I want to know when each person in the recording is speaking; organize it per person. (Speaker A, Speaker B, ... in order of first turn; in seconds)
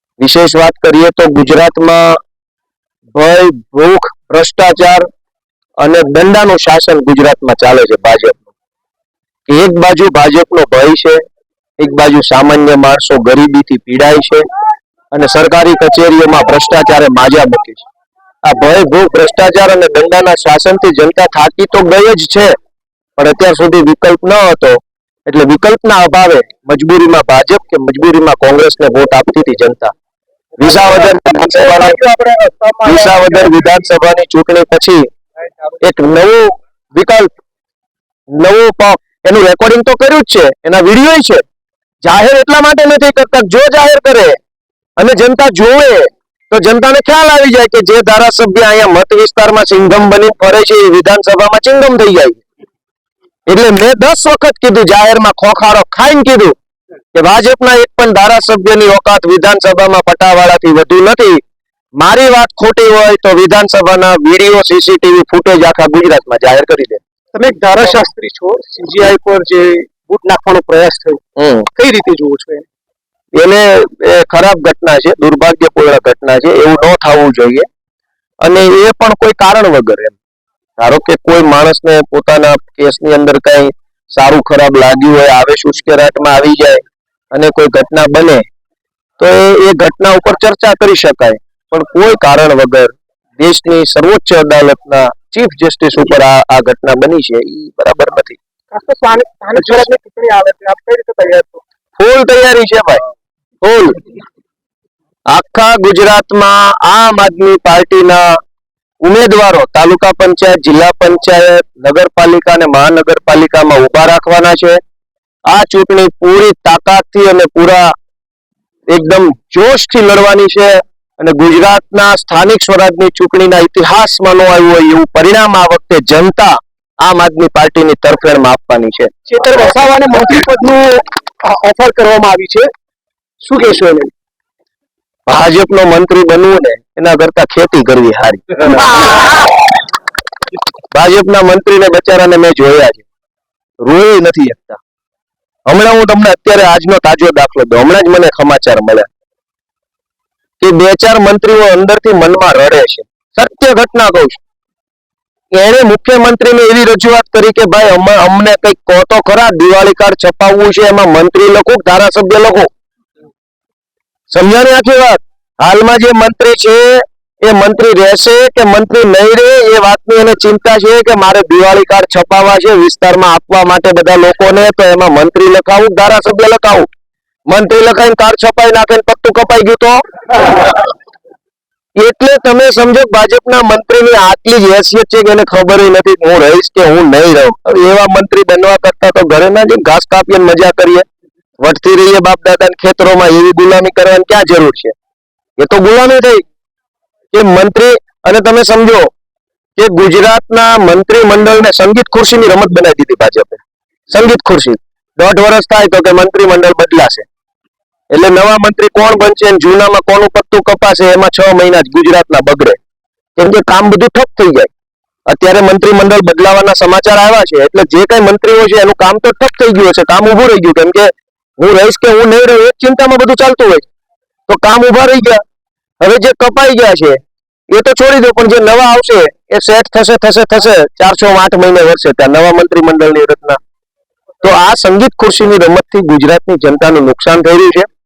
Speaker A: 0.2-2.2, 3.1-5.1, 5.8-8.5, 9.5-11.2, 11.8-14.4, 15.1-17.9, 18.4-22.5, 23.2-29.9, 30.6-32.0, 32.8-35.1, 35.8-37.3, 38.3-41.4, 42.0-44.4, 45.0-52.4, 53.5-56.5, 57.1-61.4, 62.0-67.0, 71.4-71.7, 73.3-77.7, 78.4-80.2, 80.8-88.4, 89.2-98.4, 102.0-103.0, 103.6-104.0, 105.3-108.4, 109.0-114.8, 115.5-117.9, 118.9-129.1, 135.3-138.8, 140.9-143.0, 143.8-144.8, 145.7-149.1, 150.6-154.4, 155.5-162.7, 164.3-176.9, 177.5-180.6, 181.9-191.1, 191.6-194.9, 195.6-196.4, 197.3-199.1, 199.8-207.3, 208.1-212.8, 213.4-214.7, 215.3-223.8, 224.5-225.4, 226.0-233.6, 234.4-237.9
Speaker B: 30.6-33.6, 67.3-71.2, 71.7-72.7, 98.7-101.6, 129.3-132.7, 133.4-134.1